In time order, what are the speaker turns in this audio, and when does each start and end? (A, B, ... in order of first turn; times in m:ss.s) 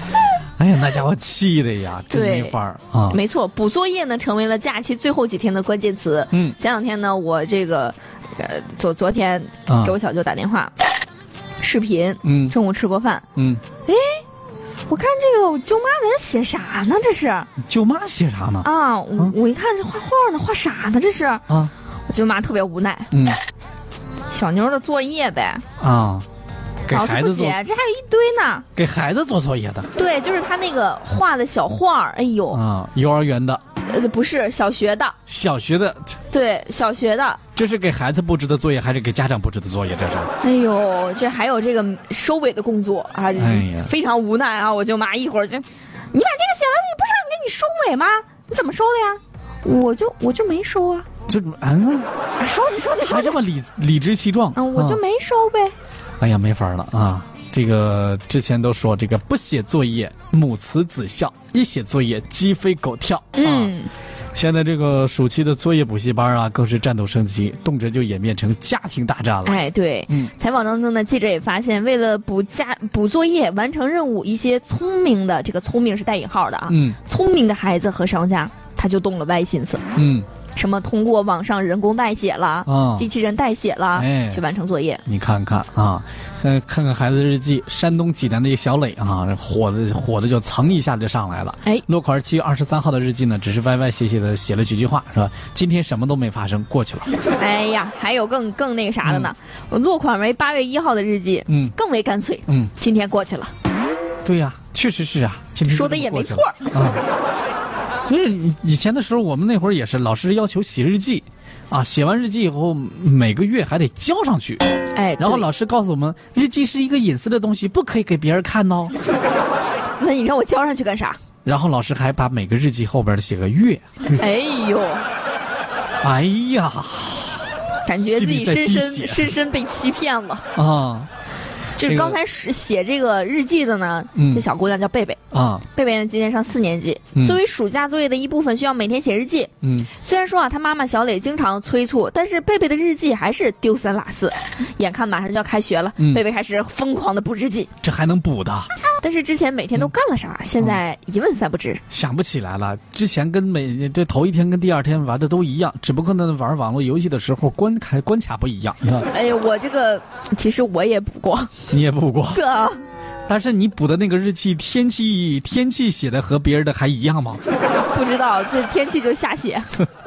0:00.1-0:03.2 A
0:02.1-0:02.6 B
0:03.1-0:10.7 B
0:09.7-0:10.0 A
0:11.6-0:13.2 B
0:12.2-0:12.6 A
0:13.4-0:13.6 A
0:13.9-0:14.2 B
0:14.9-0:17.5 B
0:17.6-0:19.4 A
0:18.6-0:21.5 B
0:22.1-0:23.1 B
0:23.1-0:23.4 A
0:24.3-0:25.6 B
0:25.8-0:26.3 A
0:26.9-0:27.6 A
0:26.9-0:28.7 B
0:28.8-0:29.9 A
0:30.0-0:32.6 B
0:32.5-0:33.6 A
0:33.8-0:35.2 B
0:35.3-0:36.2 A
0:36.3-0:37.4 B
0:37.6-0:40.3 A
0:40.4-0:51.1 B
0:43.4-0:43.9 A
0:51.3-0:52.1 A
0:52.4-0:53.4 B
0:53.0-0:55.0 A
0:54.6-0:55.8 B
0:56.2-1:03.8 A
1:03.4-1:03.9 B
1:04.4-1:10.3 A
1:09.4-1:19.9 B
1:16.7-1:17.0 A
1:20.0-1:20.3 A
1:20.6-1:25.0 B
1:22.7-1:23.1 A
1:24.0-1:24.4 A
1:25.0-1:37.2 A
1:37.4-1:43.5 B
1:39.0-1:39.3 A
1:41.5-1:41.7 A
1:42.5-1:42.7 A
1:44.2-1:47.0 A
1:45.6-1:46.7 B
1:48.1-1:54.6 A
1:54.9-1:55.5 B
1:55.2-1:59.0 A
2:00.0-2:01.2 B
2:01.4-2:04.2 A
2:04.1-2:05.1 B
2:06.0-2:07.4 A
2:07.8-2:10.5 B
2:08.0-2:09.4 A
2:10.6-2:11.1 A
2:11.8-2:15.2 B
2:11.8-2:12.2 A
2:14.2-2:14.4 A
2:15.3-2:15.6 A
2:15.7-2:27.7 B
2:19.6-2:19.9 A
2:27.8-2:28.7 A
2:29.0-2:31.8 B
2:31.9-2:39.1 A
2:39.1-2:41.7 B
2:41.7-2:42.4 A
2:42.3-2:42.8 B
2:43.3-2:47.4 A
2:47.8-2:49.8 B